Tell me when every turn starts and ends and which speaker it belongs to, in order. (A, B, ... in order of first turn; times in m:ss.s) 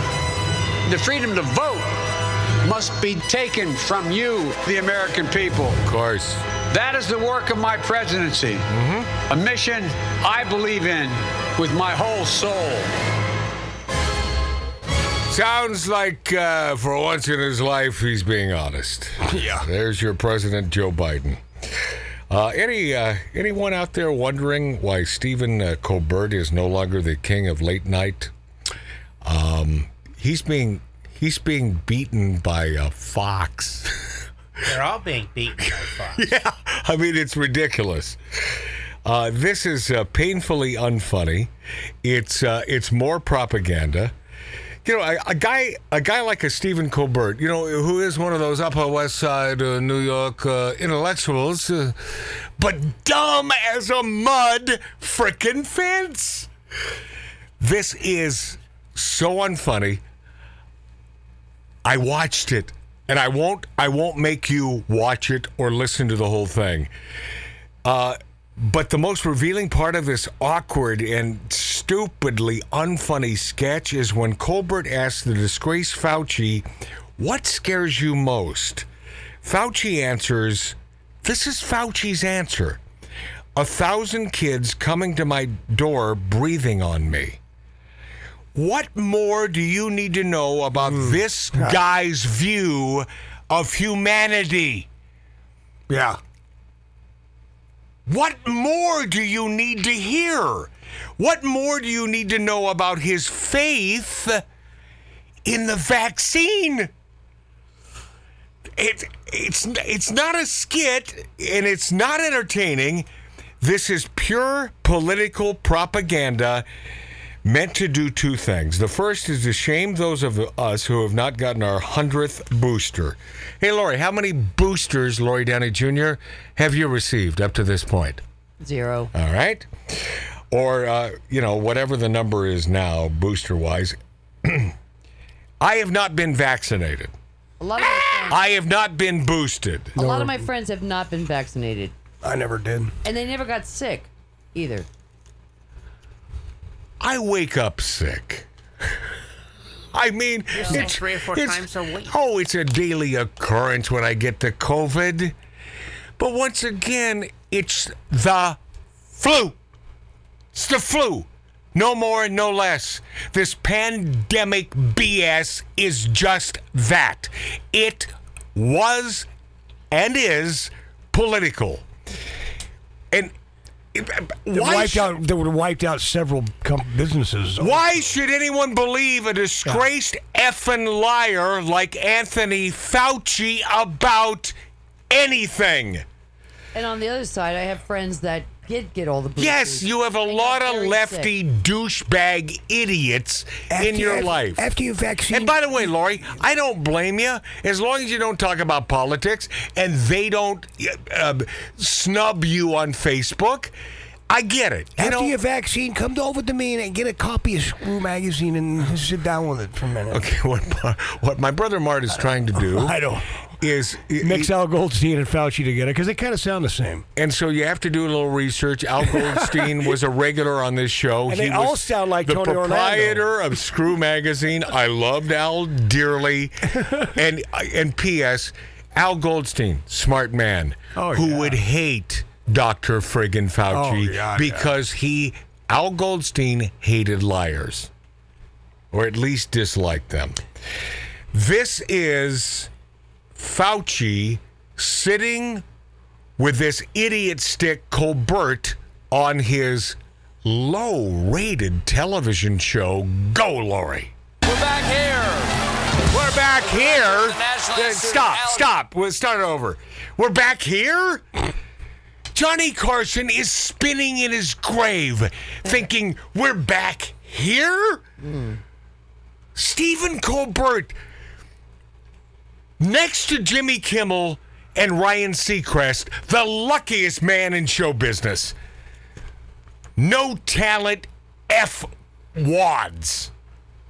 0:00.9-0:01.9 A
0:02.6-0:05.7 A
0:05.8-0:06.4 B
0:06.7-0:08.6 A
0:08.7-0:09.1 B
0:09.3-0:12.9 A
0:15.3-0:21.4 B
0:19.3-0:19.6 C
0:22.3-0:28.3 B
0:29.2-0:33.9 B
0:34.6-0:36.2 D
0:36.1-0:38.2 B
0:39.0-0:41.5 B
0:42.0-0:44.1 B
0:44.8-0:52.0 B
0:52.6-0:56.5 B
0:57.6-1:00.0 B
1:01.8-1:06.9 B
1:07.8-1:16.6 B
1:17.2-1:18.9 B
1:19.4-1:22.8 B
1:23.6-1:27.4 B
1:28.5-1:34.9 B
1:30.8-1:31.8 C
1:35.9-1:36.2 C
1:38.1-1:44.4 B
1:45.4-1:46.9 B
1:48.8-1:53.1 B
1:53.6-1:56.6 B
1:57.4-2:08.2 B
2:08.6-2:09.1 E
2:09.1-2:09.7 B
2:10.5-2:14.7 B
2:15.6-2:17.1 B
2:17.6-2:18.4 E
2:18.1-2:20.0 B
2:20.0-2:20.4 C
2:20.0-2:21.9 E
2:22.2-2:22.9 C
2:23.0-2:24.9 E
2:27.0-2:28.5 B
2:29.9-2:35.3 B
2:30.5-2:32.1 D
2:30.6-2:30.8 E
2:36.2-2:38.6 B
2:39.2-2:39.6 B
2:40.5-2:49.3 B
2:49.9-2:51.8 B
2:53.9-2:55.2 B
2:54.5-2:58.1 C
2:57.6-3:04.5 B
3:05.1-3:06.0 B
3:06.7-3:11.3 E
3:09.4-3:14.6 B
3:13.7-3:15.8 C
3:15.3-3:23.7 B
3:24.3-3:25.4 B
3:25.0-3:30.3 C
3:30.1-3:34.5 B
3:32.5-3:33.2 C
3:34.2-3:37.0 C
3:37.2-3:57.9 B
3:39.1-3:39.4 C
3:41.3-3:43.3 C
3:50.9-3:51.6 C
3:53.7-3:54.7 C
3:58.9-4:00.4 B
4:01.3-4:02.7 B
4:03.4-4:05.6 B
4:06.4-4:14.1 B
4:14.4-4:15.5 F
4:16.1-4:21.2 B
4:16.4-4:18.7 F
4:22.3-4:28.0 B
4:28.2-4:28.6 E
4:29.6-4:31.0 B
4:32.8-4:38.5 B
4:40.0-4:43.3 B